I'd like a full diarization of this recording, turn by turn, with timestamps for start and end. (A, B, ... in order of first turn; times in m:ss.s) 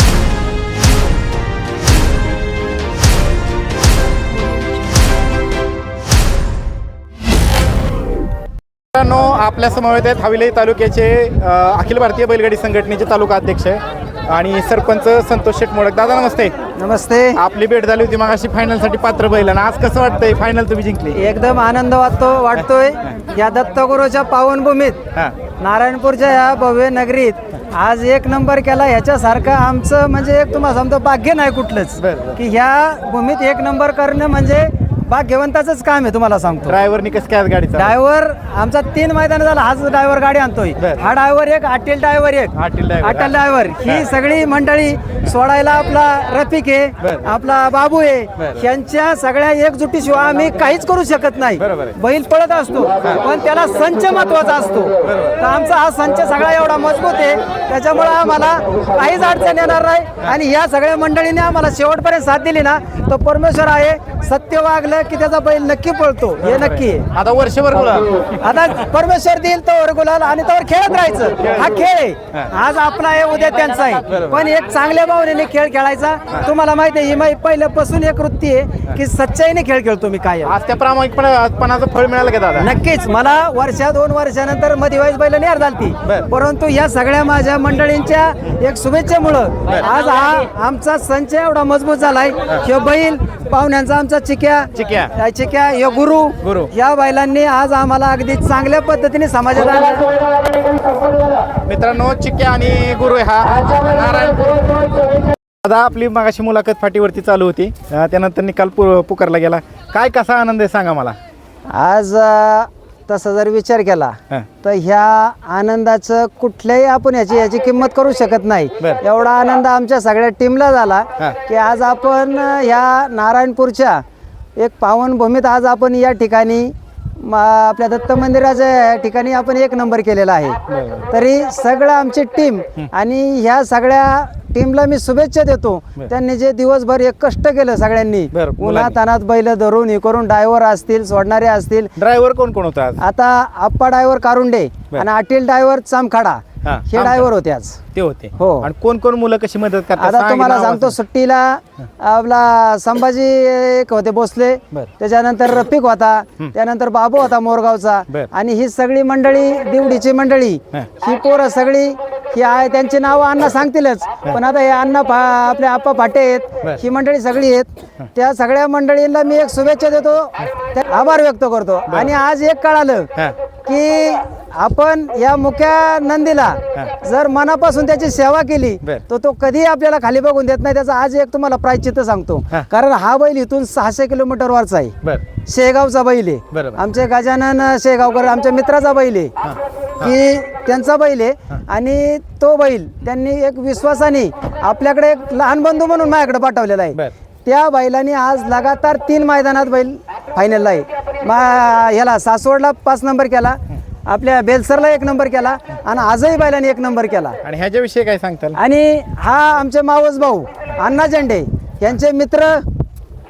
0:08.9-0:16.5 A
0:16.8-0:17.4 B
0:17.3-0:21.2 A
0:21.1-0:25.0 B
0:25.6-0:36.8 B
0:32.0-0:32.4 A
0:36.7-0:38.0 A
0:37.8-1:07.1 B
0:42.6-0:44.0 A
0:51.6-0:52.0 A
0:55.1-0:55.4 A
1:07.1-1:08.1 A
1:08.4-1:20.6 B
1:11.4-1:11.7 A
1:14.1-1:14.4 A
1:20.4-1:22.7 A
1:22.6-1:40.2 B
1:34.7-1:35.1 A
1:36.4-1:36.7 A
1:41.6-1:44.9 A
1:45.6-1:51.2 A
1:51.7-2:04.0 B
2:04.6-2:10.6 B
2:10.7-2:11.1 A
2:11.1-2:21.9 B
2:18.3-2:19.0 A
2:22.0-2:23.0 A
2:23.0-2:27.8 B
2:26.6-2:27.3 A
2:27.9-2:31.0 A
2:28.4-2:28.7 B
2:30.0-2:53.1 B
2:53.6-3:09.4 B
3:06.5-3:06.8 A
3:09.4-3:10.1 A
3:10.0-3:27.4 B
3:27.4-3:28.6 A
3:28.6-3:32.7 B